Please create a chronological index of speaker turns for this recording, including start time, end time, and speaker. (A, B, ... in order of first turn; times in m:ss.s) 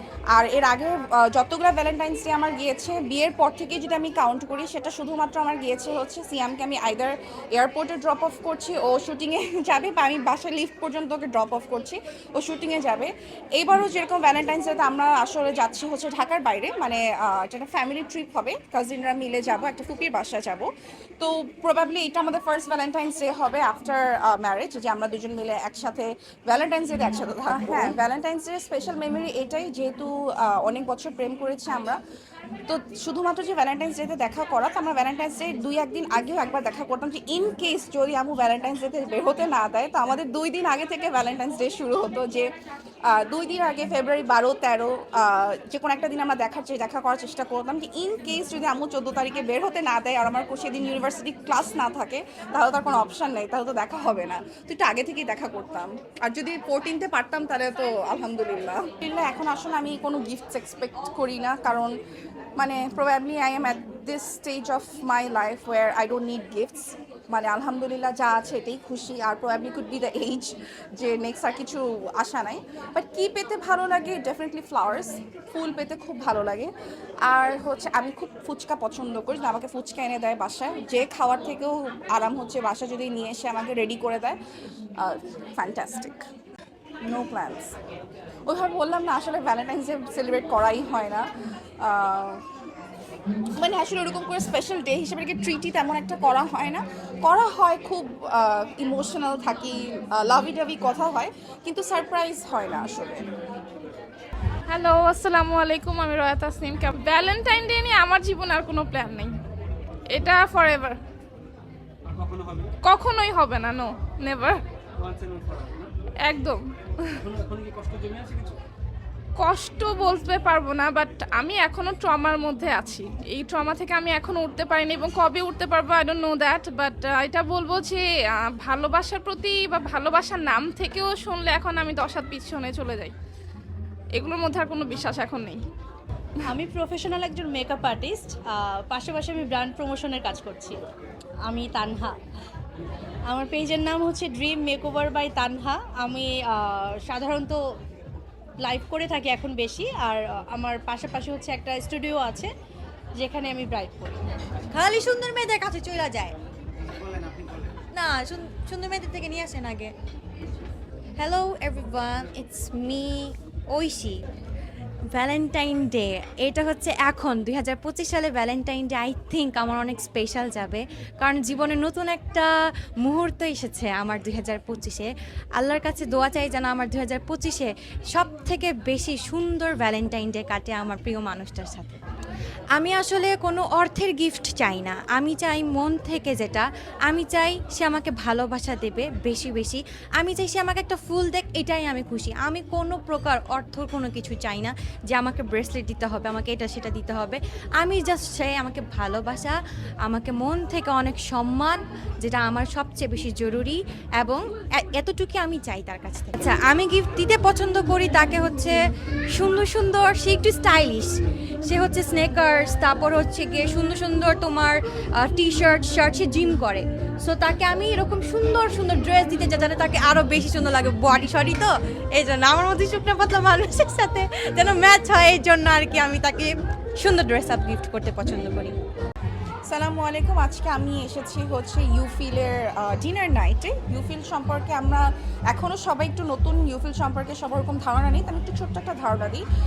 0:00.3-0:32.0 A
0:32.7-0:42.5 A
0:43.1-1:01.9 A
1:02.6-1:16.7 A
1:17.3-1:24.4 A
1:25.0-1:26.2 A
1:27.0-1:27.7 A
1:28.5-1:31.2 A
1:31.8-1:32.4 A
1:33.6-1:43.2 A
1:44.7-1:49.3 B
1:50.1-1:51.0 B
1:52.1-1:52.7 C
1:52.8-1:54.6 B
1:55.0-1:55.9 C
1:56.2-1:56.6 B
1:57.2-1:58.6 C
1:59.4-2:13.1 B
2:14.1-2:15.6 B
2:16.4-2:20.8 D
2:21.4-2:22.2 D
2:23.3-2:27.6 D
2:28.6-2:32.5 D
2:33.2-2:34.2 D
2:34.7-2:36.3 E
2:37.0-2:37.7 C
2:37.9-2:39.9 E
2:41.2-2:44.2 E
2:45.1-2:52.5 E
2:53.0-3:02.0 E
3:02.8-3:19.5 E
3:20.0-3:28.8 E
3:29.3-3:31.1 E
3:31.6-3:48.7 E
3:49.7-3:59.4 A